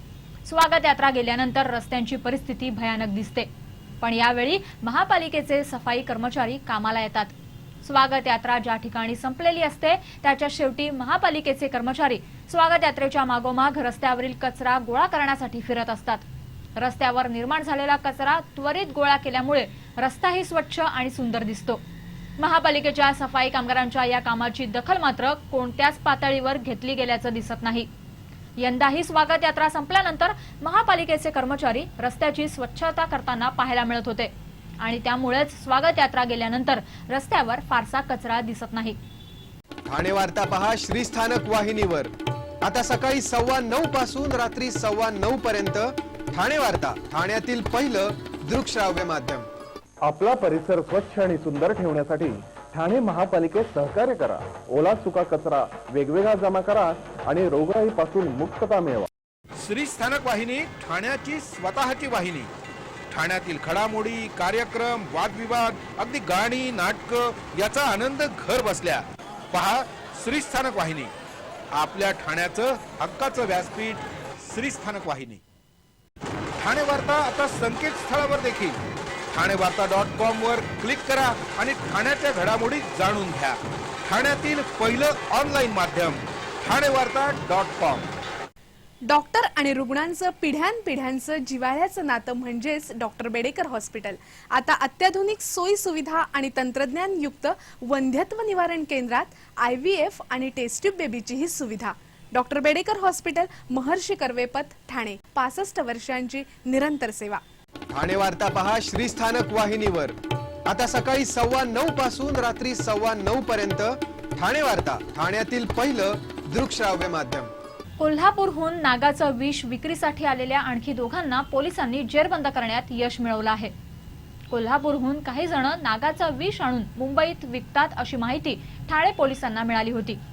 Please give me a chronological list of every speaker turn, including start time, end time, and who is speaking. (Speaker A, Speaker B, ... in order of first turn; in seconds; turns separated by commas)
Speaker A: 0.4-3.5, Speaker A: 4.0-16.2, Speaker A: 16.8-21.8, Speaker A: 22.4-27.9, Speaker A: 28.6-39.0, Speaker B: 39.9-42.1, Speaker B: 42.6-49.5, Speaker C: 50.0-59.1, Speaker D: 59.6-62.5, Speaker D: 63.1-71.1, Speaker D: 71.7-75.4, Speaker D: 76.6-78.8, Speaker D: 79.3-88.1, Speaker E: 89.1-107.4, Speaker B: 107.9-110.1, Speaker B: 110.7-117.5, Speaker A: 118.0-123.7, Speaker A: 124.5-130.2